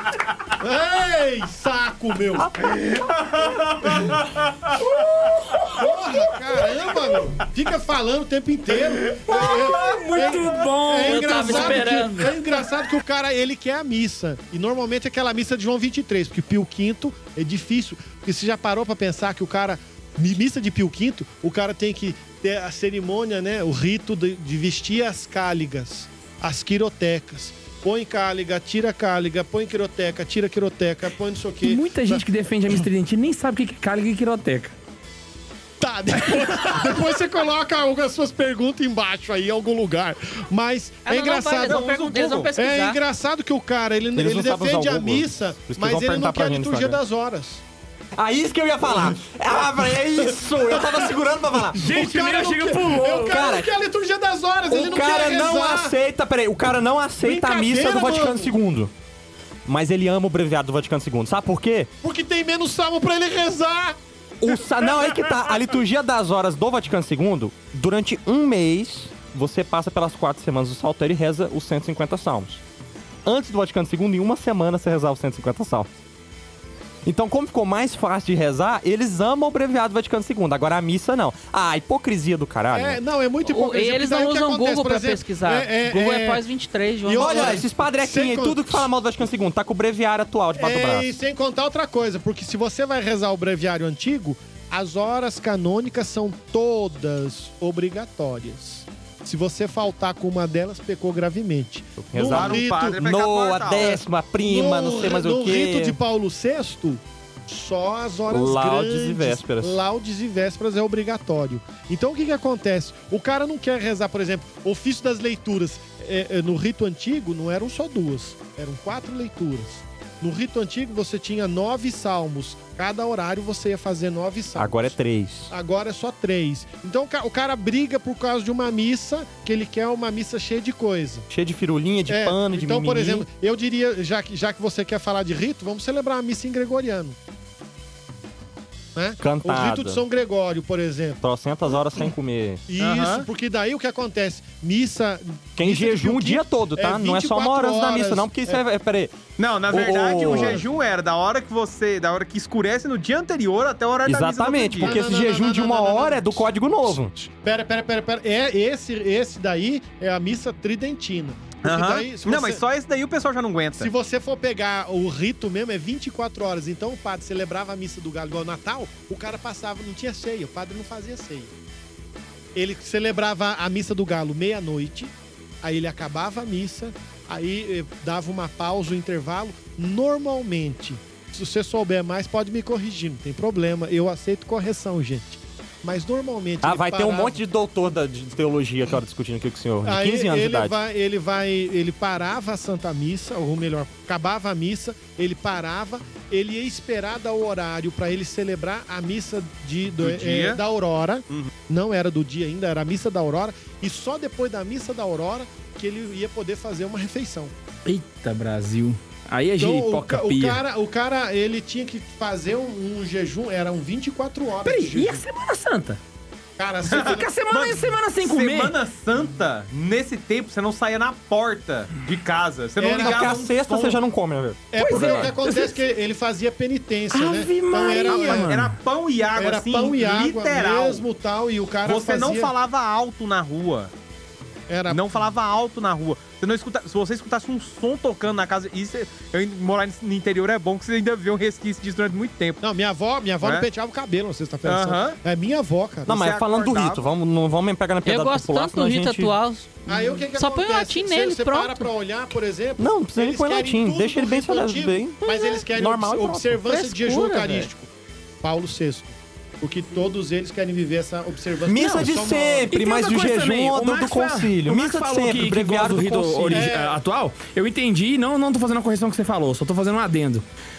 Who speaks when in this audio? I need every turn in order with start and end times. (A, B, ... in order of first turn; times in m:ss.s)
0:00.6-0:02.5 A
0:02.7-0:05.3 B
0:04.8-0:05.8 C
0:05.8-0:32.2 A
0:09.1-0:12.0 C
0:11.0-0:12.4 D
0:31.6-0:34.7 C
0:35.8-0:41.8 A
0:36.2-0:37.0 C
0:41.1-0:43.0 D
0:41.6-0:42.5 B
0:42.5-0:47.6 A
0:44.2-0:47.0 E
0:48.2-0:51.8 E
0:49.9-0:51.1 A
0:51.7-0:55.9 A
0:51.7-0:53.4 C
0:53.3-0:53.7 E
0:54.7-0:58.9 E
0:57.2-0:58.5 A
0:59.7-1:01.9 E
1:02.0-1:04.0 A
1:04.4-1:12.6 E
1:13.2-1:15.9 E
1:17.0-1:23.0 E
1:22.7-1:26.4 A
1:23.5-1:27.6 D
1:27.0-1:28.9 A
1:27.2-1:31.1 E
1:30.6-1:43.0 A
1:42.0-1:46.0 E
1:42.3-1:44.0 B
1:44.4-2:04.9 A
1:48.3-1:49.8 E
2:04.6-2:05.5 E
2:05.5-2:11.3 A
2:11.3-2:13.3 E
2:12.1-2:17.2 A
2:19.0-2:21.2 A
2:19.2-2:20.0 E
2:21.2-2:22.6 E
2:22.7-2:28.6 A
2:22.8-2:23.3 B
2:25.6-2:29.2 E
2:29.4-2:35.1 B
2:29.7-2:30.6 E
2:30.3-2:30.6 A
2:34.1-2:37.2 E
2:34.8-2:36.4 A
2:37.2-2:42.6 A
2:41.6-2:43.9 B
2:43.8-2:51.5 A
2:52.6-3:07.4 A
3:06.6-3:10.7 E
3:09.8-3:27.5 A
3:20.0-3:20.6 B
3:27.8-3:30.6 C
3:29.6-3:35.2 A
3:34.6-3:36.0 C
3:36.6-3:37.3 A
3:36.9-3:44.0 B
3:37.0-3:38.8 C
3:42.8-3:43.5 A
3:42.8-3:45.3 E
3:44.7-3:48.6 A
3:44.8-3:45.8 C
3:47.1-3:48.8 C
3:48.0-3:51.0 B
3:49.4-3:52.5 A
3:51.8-3:53.9 B
3:54.7-3:55.1 A
3:54.9-4:02.6 B
4:02.6-4:06.2 A
4:03.4-4:03.7 B
4:04.6-4:05.2 B
4:06.1-4:09.4 E
4:06.1-4:07.0 B
4:08.0-4:11.9 D
4:09.9-4:17.9 A
4:12.8-4:15.2 E
4:15.2-4:15.6 D
4:15.7-4:17.6 E
4:17.3-4:17.6 D
4:18.4-4:22.7 A
4:21.6-4:26.7 E
4:22.7-4:30.4 C
4:26.5-4:27.0 A